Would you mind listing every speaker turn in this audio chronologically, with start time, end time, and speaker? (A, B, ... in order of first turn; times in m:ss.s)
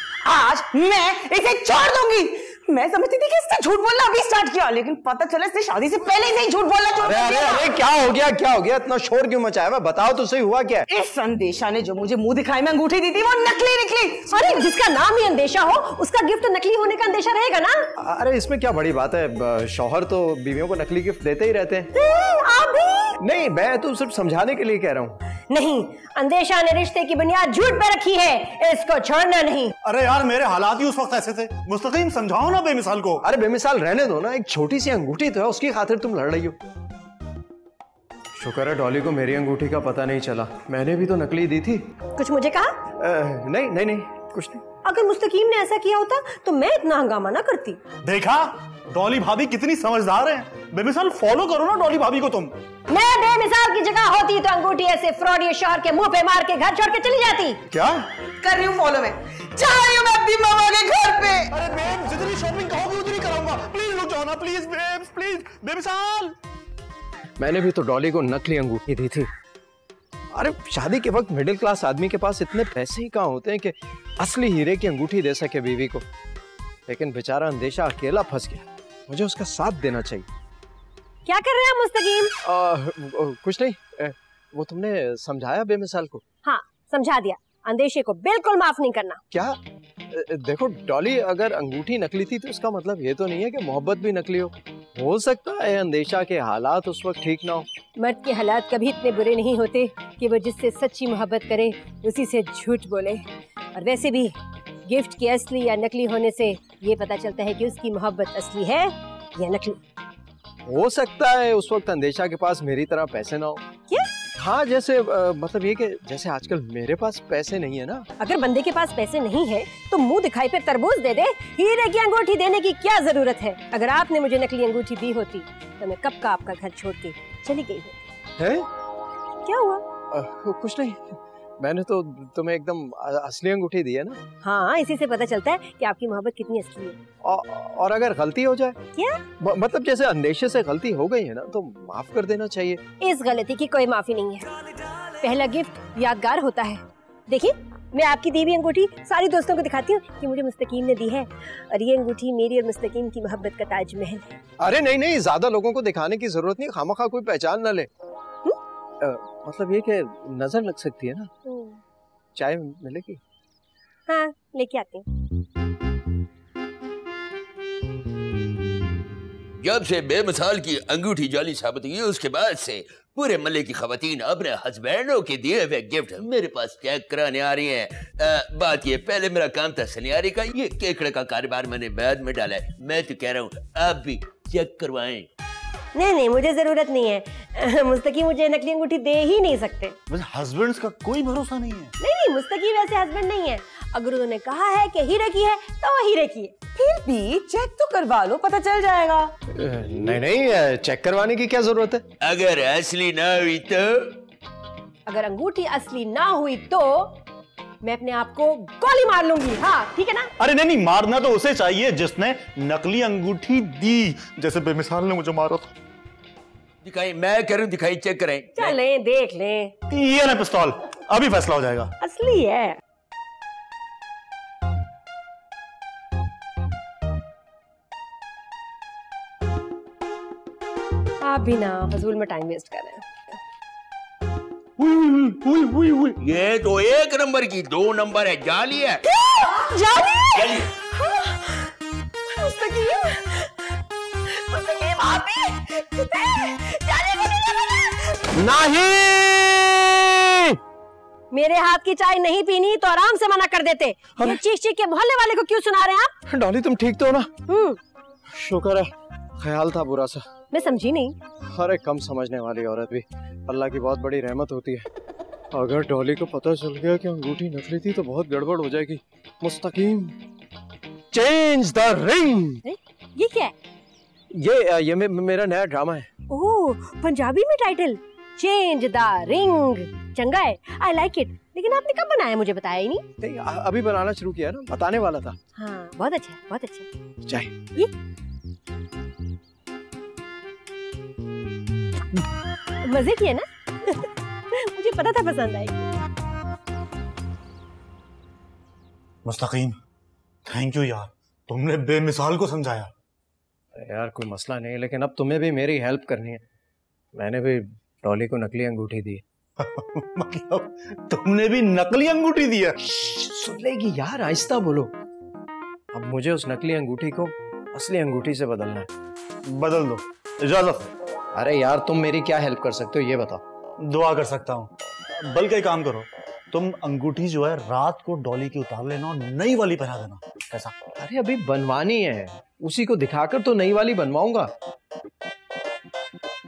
0:00.2-0:07.8 A
0:07.0-0:10.9 B
0:10.9-0:14.3 A
0:14.3-0:17.9 C
0:18.0-0:21.9 B
0:21.9-0:23.2 C
0:23.2-0:25.2 B
0:25.5-0:29.7 C
0:29.8-0:33.2 D
0:33.2-0:36.6 B
0:38.4-0:41.9 B
0:42.2-0:42.8 C
0:43.0-0:44.6 B
0:44.8-0:47.8 C
0:48.0-0:52.6 D
0:52.9-0:57.6 C
0:57.7-0:58.0 D
0:58.4-1:01.5 A
1:01.5-1:06.4 D
1:07.4-1:09.3 B
1:10.3-1:16.0 B
1:16.9-1:20.3 B
1:21.2-1:22.3 C
1:22.4-1:26.2 B
1:26.4-1:29.2 C
1:29.3-1:29.6 B
1:30.1-1:37.7 B
1:38.0-1:43.2 C
1:43.7-1:44.3 C
1:44.8-1:49.8 C
1:50.7-1:53.6 B
1:54.4-1:58.1 B
1:58.2-2:08.0 C
2:08.4-2:08.7 B
2:09.4-2:09.8 C
2:10.1-2:14.2 B
2:14.4-2:17.0 C
2:17.2-2:18.8 B
2:19.0-2:19.2 C
2:19.4-2:22.8 B
2:23.0-2:34.3 C
2:34.6-2:37.9 B
2:39.0-2:41.3 B
2:41.4-2:41.8 C
2:42.4-2:43.2 B
2:44.1-2:45.1 C
2:49.6-3:05.3 E
3:05.9-3:10.0 C
3:10.1-3:11.9 D
3:12.0-3:16.6 C
3:16.7-3:19.3 A
3:19.5-3:22.0 B
3:22.2-3:24.2 E
3:25.1-3:27.2 C
3:27.8-3:30.3 C
3:30.4-3:35.7 D
3:36.8-3:38.8 E
3:38.6-3:39.7 C
3:39.9-3:41.9 D
3:42.0-3:42.8 C
3:51.2-3:53.4 C
3:54.8-3:56.2 D
3:56.2-3:59.0 E
3:59.2-4:01.7 C
4:00.3-4:00.7 E
4:02.3-4:08.3 C
4:08.3-4:10.6 B
4:11.3-4:16.1 C
4:16.3-4:17.3 B
4:17.5-4:17.8 C
4:18.3-4:18.9 B
4:19.4-4:20.2 B
4:20.5-4:21.2 C
4:21.4-4:24.9 B
4:25.5-4:30.2 B
4:31.1-4:32.6 B
4:32.6-4:33.5 C
4:34.3-4:36.1 B
4:36.3-4:43.0 C
4:43.2-4:45.4 B
4:45.6-4:46.9 C
4:47.3-4:47.5 B
4:52.8-4:55.8 C
4:59.2-4:59.8 D
5:00.5-5:02.9 D
5:03.8-5:06.4 B
5:07.1-5:09.2 B
5:09.6-5:12.8 D
5:12.8-5:14.9 B
5:15.9-5:18.9 B
5:19.5-5:20.9 D
5:21.3-5:23.4 B
5:23.8-5:30.7 D
5:31.0-5:34.5 B